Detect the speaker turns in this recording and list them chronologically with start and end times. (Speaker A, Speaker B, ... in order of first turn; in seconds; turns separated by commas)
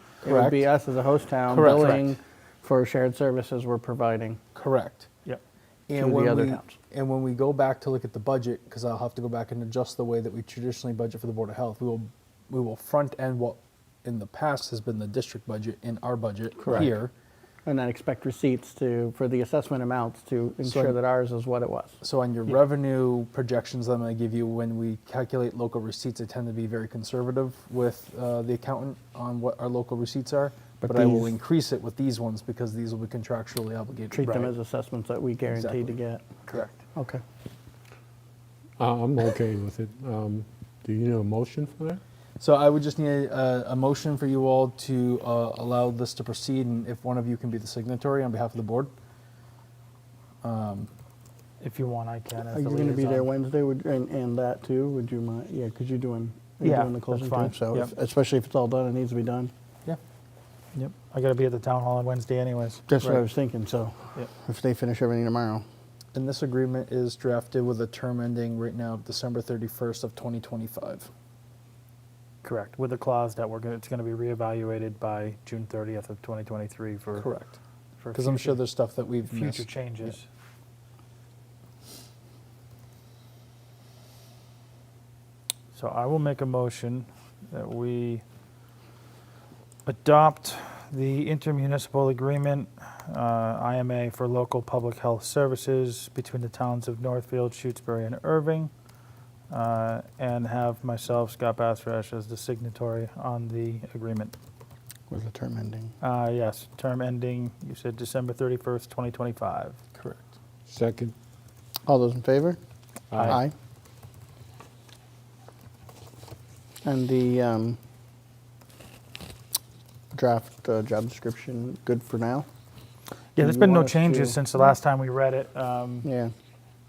Speaker A: 0.2-0.7, Speaker B: 0.2-4.4, Speaker A: 1.5-2.1, Speaker A: 4.5-5.1, Speaker A: 5.9-17.1, Speaker B: 5.9-6.7, Speaker B: 16.6-16.9, Speaker B: 17.6-22.0, Speaker A: 20.6-20.9, Speaker A: 22.0-34.2, Speaker B: 30.8-31.3, Speaker B: 34.1-37.2, Speaker C: 34.2-34.5, Speaker A: 35.5-36.0, Speaker D: 38.8-42.0, Speaker A: 42.4-48.9, Speaker A: 50.4-50.9, Speaker C: 51.6-53.3, Speaker B: 52.4-59.5, Speaker C: 56.6-57.9, Speaker C: 60.7-63.2, Speaker B: 62.9-65.6, Speaker A: 66.1-71.1, Speaker C: 72.4-77.3, Speaker A: 77.2-77.6, Speaker C: 78.0-78.6, Speaker A: 78.1-80.1, Speaker C: 79.3-80.2, Speaker C: 85.7-88.2, Speaker C: 89.9-98.7, Speaker C: 99.5-104.3, Speaker B: 105.1-105.9, Speaker C: 106.0-109.8, Speaker A: 110.0-110.2, Speaker D: 110.7-111.1, Speaker B: 111.8-112.6, Speaker D: 113.1-113.4, Speaker B: 113.2-113.5, Speaker B: 116.8-117.8, Speaker B: 120.1-122.5, Speaker C: 123.4-126.1, Speaker B: 123.4-124.4, Speaker B: 126.0-126.3